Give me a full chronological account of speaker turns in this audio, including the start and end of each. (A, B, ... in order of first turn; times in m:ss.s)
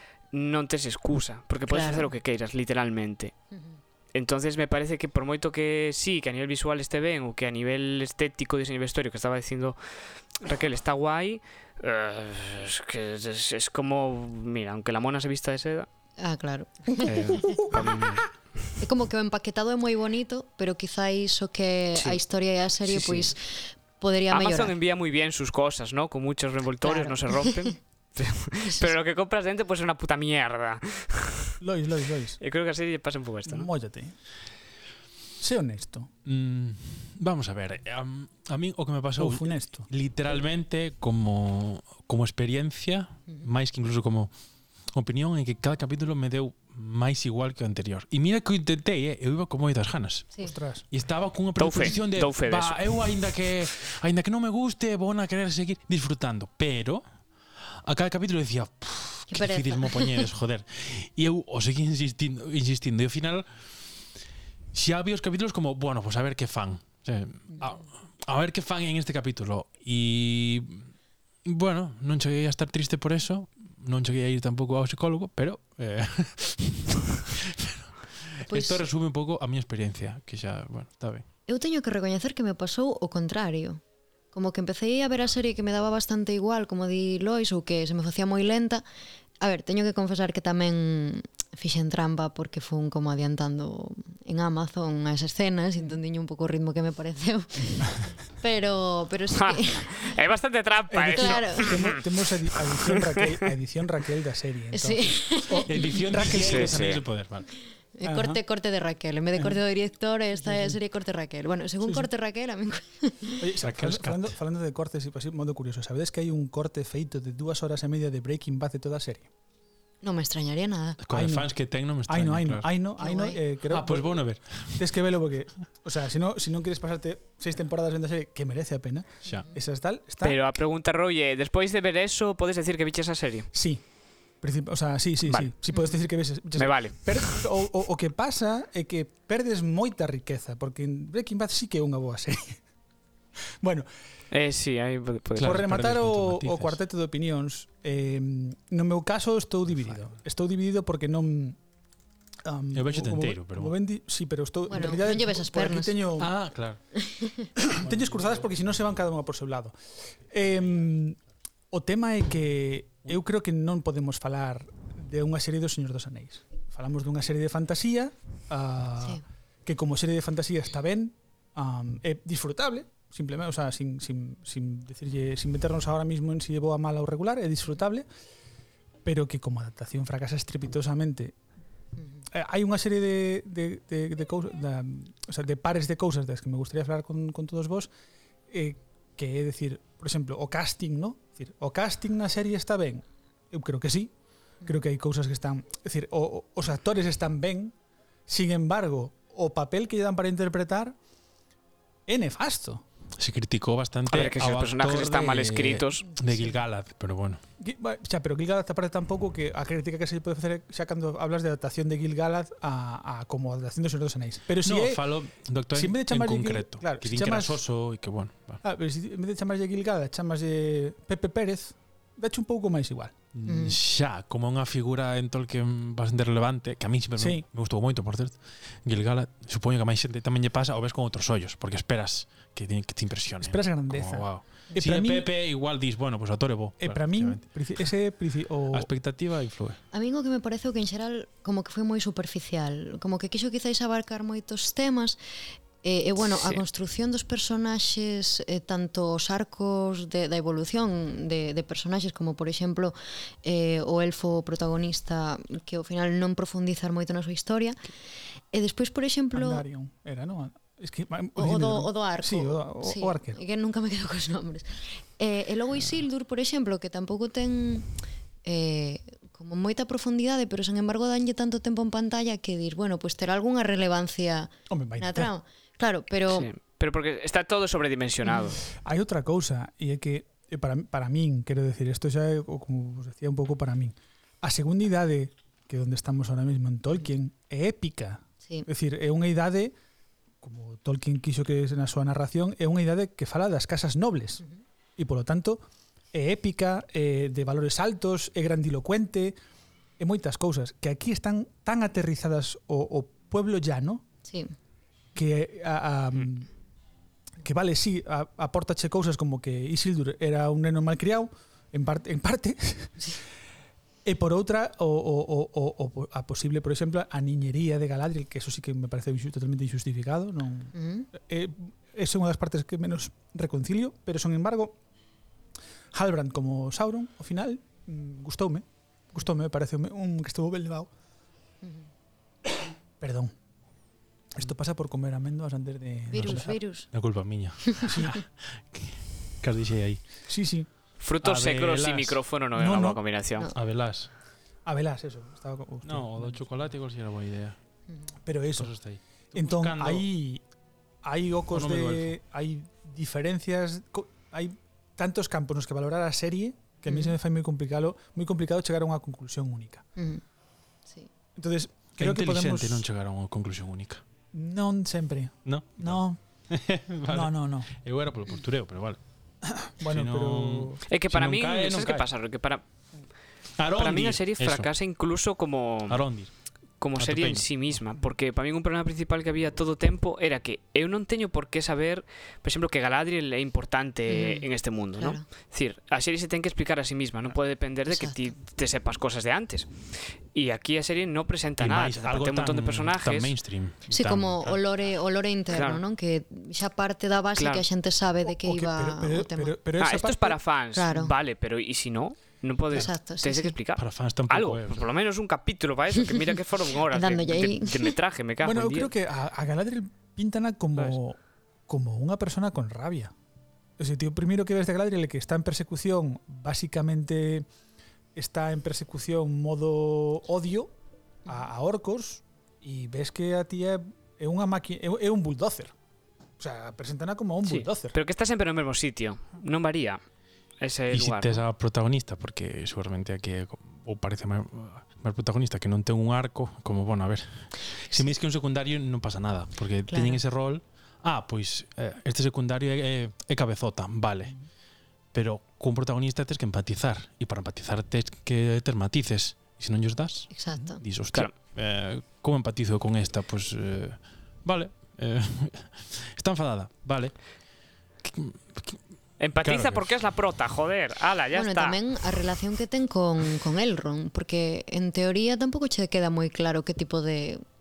0:00.3-0:03.3 A
0:01.7-0:02.1 B
0:03.5-0:03.8 B
0:04.1-0:09.8 A
0:10.4-0:15.9 A
0:16.2-0:17.6 B
0:17.0-0:17.9 C
0:17.1-0:18.7 A
0:18.8-0:24.7 B
0:21.9-0:22.2 A
0:24.3-0:31.6 A
0:26.8-0:27.7 B
0:28.6-0:28.9 B
0:31.6-0:32.4 C
0:32.4-0:33.7 A
0:33.5-0:34.1 C
0:35.4-0:36.1 C
0:36.2-0:44.3 D
0:39.2-0:39.9 C
0:44.9-0:50.3 D
0:50.4-0:50.8 C
0:50.9-0:57.0 D
0:51.6-0:52.8 A
0:57.6-1:03.5 D
0:59.3-1:00.3 B
1:04.7-1:10.9 D
1:11.4-1:21.2 D
1:18.5-1:18.8 B
1:21.5-1:23.8 B
1:24.3-1:28.8 B
1:29.4-1:40.1 B
1:39.3-1:42.0 A
1:40.9-1:46.9 C
1:41.1-1:41.9 B
1:42.7-1:43.5 A
1:44.7-1:45.9 B
1:45.6-1:47.5 D
1:46.3-1:47.0 A
1:48.0-1:53.4 B
1:48.0-1:48.4 C
1:49.3-1:49.6 C
1:50.4-1:50.8 C
1:51.8-1:52.1 C
1:53.4-1:59.3 C
1:53.6-1:54.3 D
2:00.0-2:01.0 B
2:01.0-2:02.7 D
2:01.1-2:01.5 C
2:02.1-2:04.2 C
2:03.0-2:03.4 B
2:03.7-2:04.8 D
2:04.7-2:10.4 C
2:10.2-2:13.5 A
2:13.5-2:13.8 C
2:14.4-2:22.6 C
2:16.6-2:17.4 A
2:23.6-2:23.9 C
2:24.3-2:25.6 A
2:25.4-2:26.8 D
2:25.4-2:31.6 C
2:32.4-2:36.3 C
2:32.7-2:33.7 D
2:34.7-2:36.0 B
2:36.2-2:36.8 D
2:37.0-2:37.5 B
2:37.6-2:39.8 C
2:37.8-2:38.5 D
2:40.3-2:41.2 C
2:41.7-2:58.1 C
2:59.0-3:01.4 C
3:02.3-3:07.9 C
3:08.5-3:14.1 C
3:14.6-3:17.7 C
3:18.3-3:21.0 C
3:22.1-3:22.8 C
3:23.2-3:27.4 D
3:24.1-3:26.1 A
3:27.6-3:35.1 C
3:34.6-3:38.6 D
3:35.7-3:37.6 C
3:38.6-3:43.1 C
3:43.3-3:57.4 D
3:43.4-3:43.8 B
3:47.2-3:47.4 C
3:53.4-3:55.3 C
3:56.8-3:58.9 C
3:58.7-3:59.8 D
3:59.9-4:05.2 B
4:05.8-4:17.8 B
4:18.5-4:19.6 B
4:19.3-4:23.4 C
4:21.4-4:27.9 B
4:28.4-4:36.5 B
4:34.7-4:35.3 C
4:36.3-4:38.6 A
4:38.3-4:38.5 B
4:38.7-4:49.7 C
4:50.4-4:54.4 C
4:55.0-4:59.4 C
5:00.0-5:04.0 C
5:04.3-5:04.5 B
5:05.2-5:06.5 C
5:07.4-5:13.1 C
5:14.0-5:24.8 C
5:20.8-5:21.1 B
5:25.9-5:30.9 C
5:33.0-5:33.3 C
5:34.4-5:36.6 C
5:36.1-5:36.9 B
5:36.9-5:40.0 D
5:37.7-5:38.0 B
5:37.8-5:38.2 C
5:40.3-5:40.7 C
5:41.0-5:43.5 A
5:41.2-5:42.2 D
5:42.6-5:43.0 C
5:43.5-5:44.1 D
5:44.7-5:46.4 C
5:45.8-5:47.6 D
5:48.2-5:48.7 C
5:48.6-5:50.1 D
5:49.3-5:50.4 C
5:51.0-5:59.8 C
5:51.5-5:52.2 D
5:56.9-5:57.2 B
6:00.0-6:00.2 B
6:01.4-6:02.9 C
6:02.0-6:04.0 D
6:04.3-6:06.2 C
6:05.4-6:09.0 D
6:07.1-6:07.7 C
6:09.5-6:10.8 C
6:09.8-6:12.1 D
6:10.9-6:12.6 A
6:13.6-6:14.7 D
6:13.8-6:16.0 A
6:15.9-6:16.3 D
6:16.8-6:29.7 A
6:17.0-6:17.8 D
6:24.1-6:25.2 B
6:27.9-6:28.2 B
6:30.3-6:33.3 A
6:31.6-6:34.6 D
6:33.9-6:39.6 B
6:35.5-6:35.8 A
6:37.4-6:37.7 A
6:38.3-6:40.4 C
6:39.8-6:48.9 A
6:40.7-6:41.1 B
6:42.7-6:43.6 B
6:43.8-6:44.9 D
6:46.9-6:48.0 B
6:48.4-6:53.1 C
6:53.8-6:57.5 C
6:58.2-7:00.7 C
7:01.3-7:05.7 C
7:06.4-7:08.0 C
7:07.4-7:10.0 A
7:10.6-7:11.4 A
7:10.9-7:24.4 D
7:19.9-7:20.2 B
7:25.1-7:37.2 D
7:30.3-7:30.8 B
7:38.0-7:38.8 D
7:39.2-7:41.8 A
7:39.4-7:39.9 D
7:41.3-7:47.4 B